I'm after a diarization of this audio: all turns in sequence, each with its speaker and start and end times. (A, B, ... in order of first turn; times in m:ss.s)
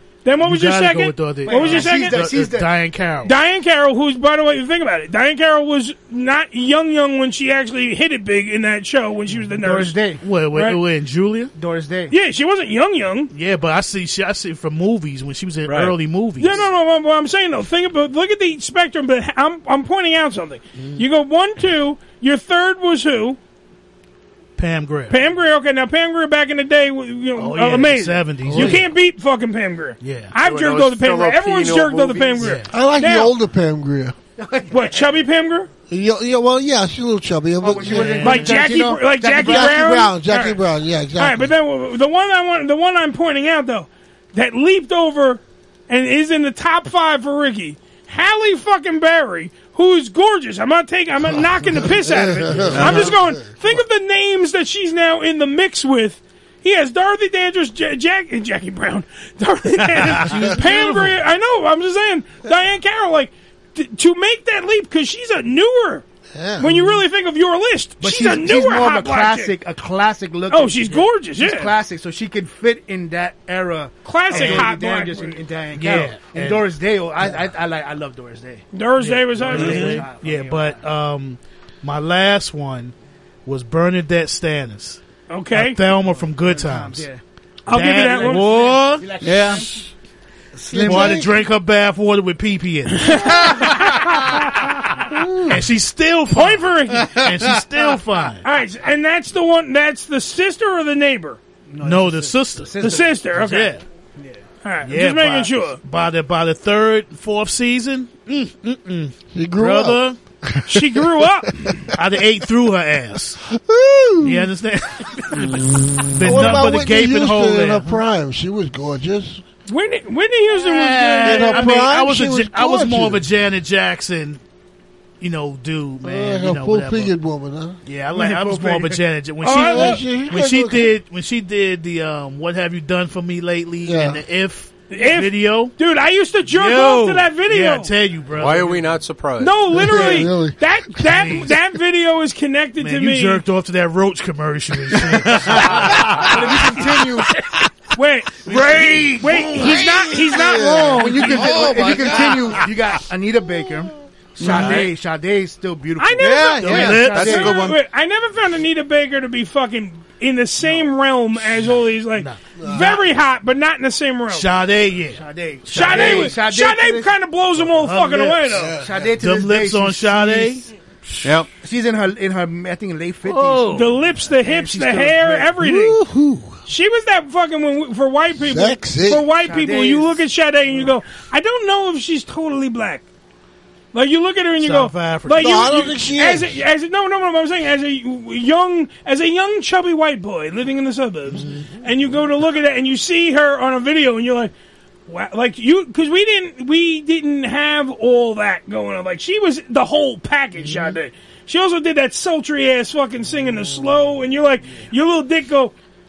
0:00.2-0:02.3 A
0:00.4-0:03.3 B
0:01.4-0:02.7 C
0:03.2-0:10.0 A
0:09.6-0:10.2 C
0:10.2-0:11.5 B
0:10.5-0:10.8 A
0:11.6-0:12.1 C
0:12.1-0:13.3 A
0:13.3-0:16.7 B
0:15.6-0:15.9 D
0:16.4-0:23.4 A
0:24.6-0:25.2 B
0:25.1-0:33.3 A
0:27.4-0:28.9 B
0:28.4-0:28.7 E
0:30.0-0:30.3 B
0:30.4-0:32.5 D
0:32.4-0:32.7 B
0:32.7-0:34.2 E
0:34.4-0:35.2 C
0:34.7-0:35.7 A
0:35.9-0:38.4 E
0:37.6-0:39.9 C
0:38.0-0:38.5 B
0:38.2-0:40.6 A
0:39.3-0:41.5 E
0:41.2-1:06.0 A
0:51.8-0:53.6 E
1:00.1-1:01.2 B
1:06.3-1:06.9 E
1:06.6-1:09.5 A
1:08.0-1:18.6 C
1:10.5-1:11.7 A
1:14.0-1:15.4 A
1:14.3-1:14.7 B
1:15.7-1:16.7 B
1:18.7-1:20.0 A
1:19.0-1:22.9 B
1:19.3-1:20.8 C
1:23.4-1:27.1 B
1:25.3-1:25.8 A
1:25.9-1:27.2 C
1:27.7-1:28.7 A
1:27.7-1:29.2 B
1:27.8-1:29.8 C
1:29.2-1:29.7 F
1:30.6-1:31.3 C
1:30.7-1:31.4 E
1:30.8-1:33.6 B
1:32.9-1:35.0 A
1:35.2-1:35.5 E
1:35.5-1:38.4 B
1:36.3-1:37.2 A
1:38.4-1:41.4 A
1:41.7-1:43.2 C
1:41.8-1:43.8 B
1:42.8-1:43.7 A
1:44.6-1:45.8 A
1:44.8-1:50.2 B
1:49.3-1:51.3 E
1:50.6-1:51.8 A
1:52.0-1:53.4 B
1:53.5-1:54.5 E
1:54.2-1:58.0 B
1:56.2-1:59.4 E
1:59.7-2:01.8 A
2:00.6-2:04.4 B
2:01.2-2:03.2 E
2:05.2-2:07.1 B
2:06.0-2:07.8 E
2:07.8-2:15.7 B
2:08.1-2:09.0 C
2:09.4-2:10.1 A
2:09.5-2:10.9 E
2:13.9-2:14.2 E
2:14.9-2:17.9 A
2:16.5-2:19.0 B
2:18.4-2:19.6 D
2:19.4-2:23.4 A
2:19.7-2:20.6 E
2:21.1-2:21.5 B
2:22.8-2:26.6 B
2:26.0-2:27.4 C
2:27.9-2:32.3 A
2:28.5-2:29.5 B
2:28.5-2:29.5 C
2:30.2-2:31.2 E
2:31.0-2:37.6 C
2:31.5-2:32.4 F
2:34.4-2:34.9 F
2:36.0-2:44.5 A
2:36.2-2:37.8 F
2:36.6-2:37.6 B
2:42.6-2:43.0 E
2:44.3-2:46.4 B
2:45.1-2:47.1 C
2:45.7-2:48.7 A
2:47.6-2:51.3 B
2:48.5-2:49.1 E
2:48.7-2:50.6 C
2:51.2-2:51.5 F
2:51.6-2:55.6 C
2:53.2-2:54.0 B
2:53.7-2:56.0 A
2:55.6-2:56.6 E
2:56.6-3:03.0 A
2:58.4-2:59.4 E
2:59.3-3:00.2 C
3:03.9-3:14.5 A
3:04.6-3:05.7 B
3:05.4-3:06.6 E
3:15.1-3:25.7 A